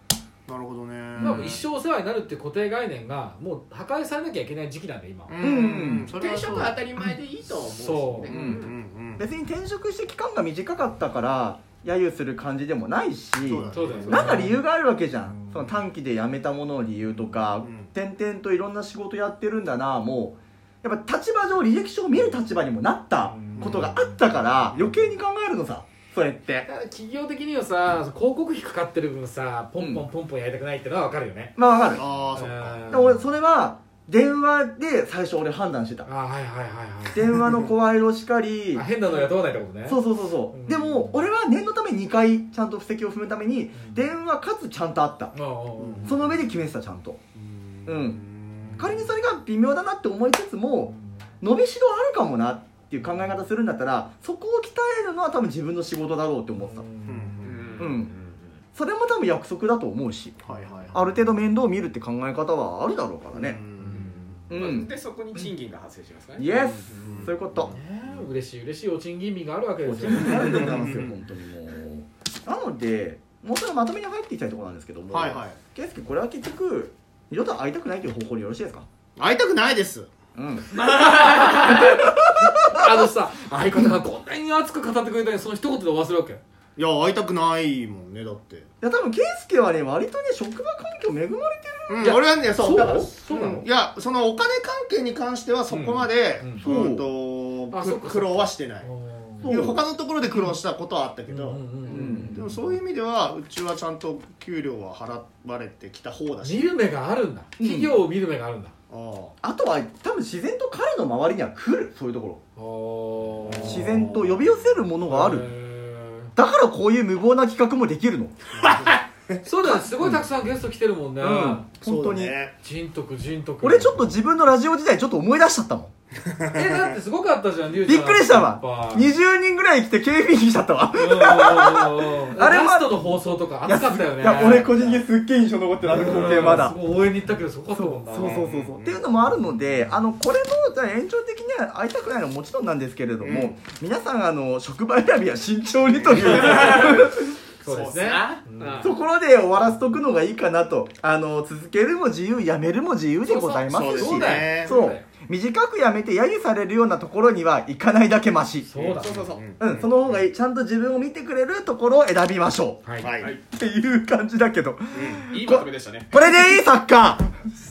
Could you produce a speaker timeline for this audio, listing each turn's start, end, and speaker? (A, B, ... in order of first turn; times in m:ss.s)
0:00.5-0:01.4 A
0:01.2-0:01.7 B
0:01.2-0:05.4 C
0:05.3-0:06.8 A
0:05.4-0:06.1 B
0:06.0-0:08.8 D
0:07.7-0:08.4 C
0:08.3-0:08.6 B
0:08.6-0:09.3 A
0:09.2-0:26.7 B
0:13.4-0:14.4 A
0:13.7-0:14.6 C
0:15.2-0:15.8 C
0:17.6-0:17.9 A
0:23.2-0:24.6 C
0:23.6-0:24.0 A
0:26.6-0:31.6 C
0:29.8-0:30.1 B
0:31.6-0:32.0 B
0:31.9-0:33.0 A
0:32.3-0:33.3 C
0:32.9-0:36.1 B
0:36.0-0:37.6 C
0:37.1-0:38.9 B
0:38.7-0:41.2 C
0:39.8-0:45.3 B
0:43.7-0:44.0 C
0:45.3-0:46.2 C
0:45.8-0:46.2 A
0:46.0-0:47.2 B
0:47.4-0:48.9 A
0:47.9-0:48.2 B
0:48.7-0:49.1 C
0:48.8-0:56.9 B
0:56.5-0:57.8 C
0:57.1-0:57.8 A
0:57.4-0:58.6 D
0:57.8-0:58.1 B
0:58.8-1:00.4 B
1:00.4-1:01.0 A
1:00.6-1:00.8 C
1:00.9-1:03.6 B
1:03.3-1:04.4 A
1:03.8-1:06.5 D
1:04.5-1:05.4 B
1:06.4-1:07.8 B
1:06.5-1:07.7 A
1:07.6-1:10.9 C
1:09.8-1:18.9 B
1:10.4-1:11.1 A
1:15.1-1:15.6 A
1:19.2-1:20.1 A
1:20.4-1:20.8 B
1:20.7-1:22.1 D
1:21.2-1:26.4 C
1:21.6-1:23.1 B
1:26.8-1:28.7 A
1:28.8-1:33.1 B
1:31.9-1:38.9 A
1:32.0-1:33.7 C
1:35.7-1:36.7 C
1:36.6-1:37.1 B
1:37.7-1:39.6 C
1:39.4-1:39.8 B
1:39.4-1:41.6 A
1:40.3-1:40.6 C
1:41.3-1:42.7 C
1:41.9-1:42.1 D
1:41.9-1:42.6 B
1:42.3-1:46.7 A
1:46.4-1:48.7 C
1:47.6-1:48.0 B
1:48.9-1:49.4 A
1:49.4-1:52.4 B
1:52.6-1:54.1 C
1:53.5-1:54.6 A
1:53.5-1:55.5 B
1:55.0-1:56.3 C
1:56.4-1:58.4 B
1:58.6-1:59.0 A
1:58.6-1:59.0 D
1:59.4-2:01.7 C
1:59.6-2:00.3 B
2:01.2-2:02.4 B
2:01.8-2:02.5 A
2:02.6-2:04.1 C
2:03.6-2:05.9 B
2:06.5-2:09.1 C
2:07.8-2:13.1 B
2:10.9-2:15.0 C
2:13.6-2:16.8 B
2:15.8-2:18.5 C
2:17.7-2:27.4 B
2:18.2-2:19.1 A
2:23.2-2:23.6 A
2:26.2-2:26.6 C
2:26.2-2:28.9 D
2:27.6-2:28.9 C
2:28.8-2:38.7 B
2:33.2-2:33.6 D
2:33.6-2:34.7 A
2:33.9-2:35.0 C
2:38.6-2:39.2 C
2:38.8-2:40.2 A
2:38.8-2:39.5 D
2:39.6-2:42.8 B
2:42.8-2:43.1 C
2:43.0-2:43.3 A
2:43.2-2:43.4 D
2:43.5-2:47.3 B
2:44.9-2:45.3 A
2:45.3-2:46.1 D